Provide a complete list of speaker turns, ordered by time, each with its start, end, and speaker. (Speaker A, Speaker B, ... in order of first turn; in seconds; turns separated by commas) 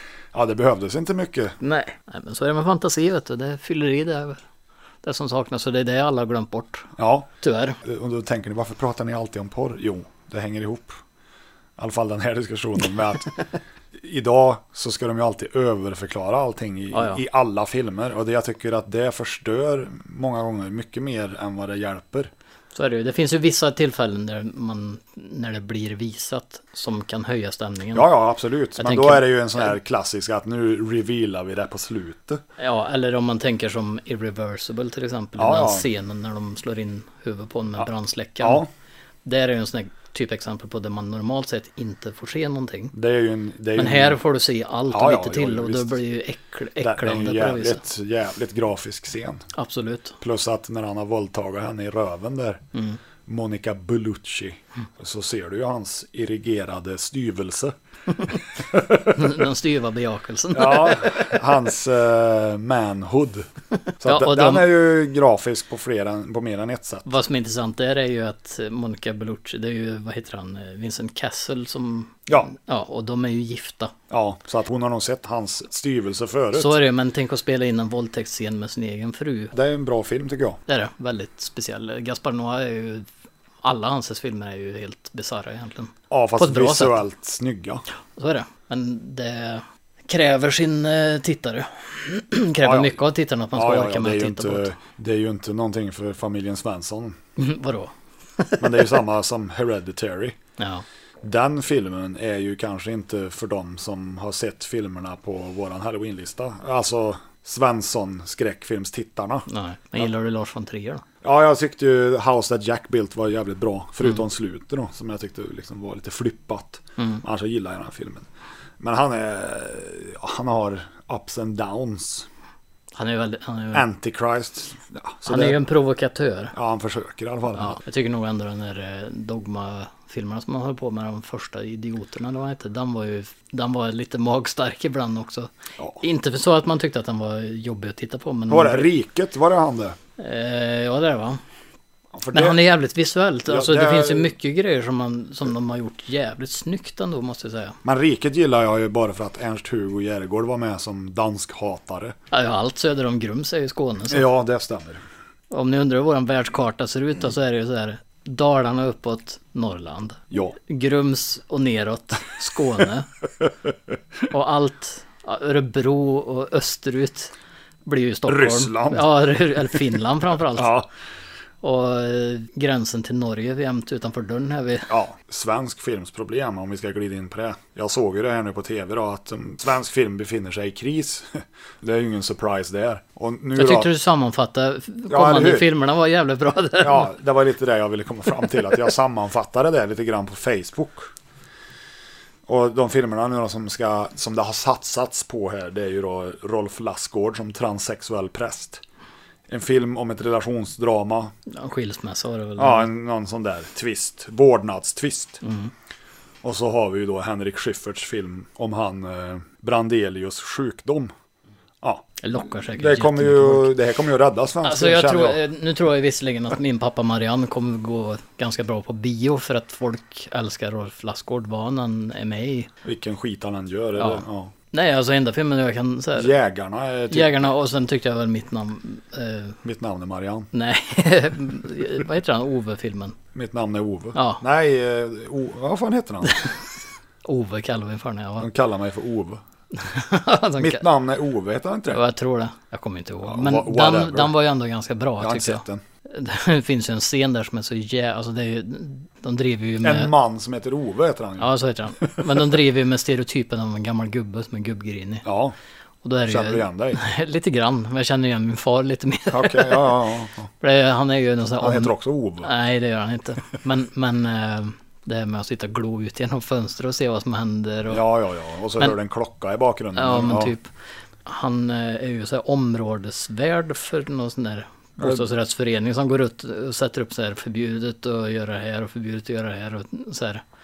Speaker A: 0.3-1.6, Speaker B: 1.6-4.4, Speaker B: 5.0-7.8, Speaker A: 7.0-7.3, Speaker A: 7.8-11.0, Speaker A: 11.8-22.3, Speaker B: 16.9-17.2, Speaker B: 22.7-28.1, Speaker A: 27.9-32.4, Speaker B: 28.8-29.7, Speaker B: 32.6-38.6, Speaker A: 35.4-35.9, Speaker A: 38.4-38.7, Speaker B: 39.2-42.9, Speaker A: 42.9-44.2, Speaker B: 43.8-47.8, Speaker A: 44.9-46.0, Speaker A: 46.8-49.5, Speaker B: 49.5-50.2, Speaker A: 50.2-52.6, Speaker B: 52.7-53.0, Speaker A: 53.2-57.7, Speaker A: 58.3-59.3, Speaker B: 59.1-61.4, Speaker A: 60.5-63.5, Speaker B: 64.0-64.7, Speaker A: 64.0-67.1, Speaker B: 67.0-73.9, Speaker A: 74.1-76.8, Speaker B: 76.5-79.5, Speaker A: 79.5-80.6, Speaker B: 80.7-83.1, Speaker B: 83.6-87.0, Speaker A: 86.1-87.8, Speaker B: 88.2-94.7, Speaker A: 92.6-93.0, Speaker A: 93.5-97.2, Speaker B: 97.4-99.0, Speaker A: 98.6-100.4, Speaker B: 100.6-100.8, Speaker A: 101.2-109.5, Speaker B: 109.5-111.0, Speaker A: 111.2-118.3, Speaker B: 117.0-117.2, Speaker A: 118.8-122.3, Speaker B: 122.9-123.8, Speaker A: 123.7-125.6, Speaker B: 125.2-126.5, Speaker A: 126.5-127.8, Speaker B: 127.5-138.9, Speaker A: 135.8-136.0, Speaker A: 138.5-140.0, Speaker B: 140.2-141.4, Speaker A: 142.1-142.6, Speaker B: 142.3-147.8, Speaker A: 143.5-144.3, Speaker A: 147.8-152.2, Speaker B: 152.3-154.3, Speaker A: 154.1-155.0, Speaker B: 155.5-163.1, Speaker A: 160.3-160.6, Speaker B: 164.3-167.3, Speaker B: 167.8-170.7, Speaker A: 168.2-169.2, Speaker A: 170.5-170.9, Speaker B: 171.6-174.9, Speaker A: 174.9-183.9, Speaker B: 183.5-187.1, Speaker A: 185.1-185.7, Speaker A: 186.8-191.1, Speaker A: 192.5-198.8, Speaker A: 199.5-201.3, Speaker B: 201.5-202.9, Speaker A: 202.6-205.4, Speaker B: 205.4-205.7, Speaker A: 206.4-211.1, Speaker A: 211.8-215.4, Speaker B: 212.2-213.7, Speaker B: 214.6-222.7, Speaker A: 222.8-224.5, Speaker B: 224.0-226.3, Speaker A: 226.2-227.4, Speaker B: 227.1-229.6, Speaker A: 229.6-230.5, Speaker B: 230.5-233.2, Speaker A: 233.3-236.4, Speaker B: 234.1-234.4, Speaker B: 237.2-238.5, Speaker A: 238.4-239.4, Speaker B: 239.7-240.8, Speaker A: 240.6-242.0, Speaker B: 241.9-250.1, Speaker A: 243.2-244.4, Speaker A: 245.2-245.8, Speaker A: 249.8-252.6, Speaker B: 251.4-255.2, Speaker A: 255.2-255.5, Speaker B: 256.0-259.9, Speaker A: 256.3-257.0, Speaker A: 259.3-260.5, Speaker B: 260.6-268.0, Speaker A: 261.6-262.5, Speaker A: 267.9-270.5, Speaker B: 269.9-270.7, Speaker B: 271.2-280.4, Speaker A: 275.0-275.3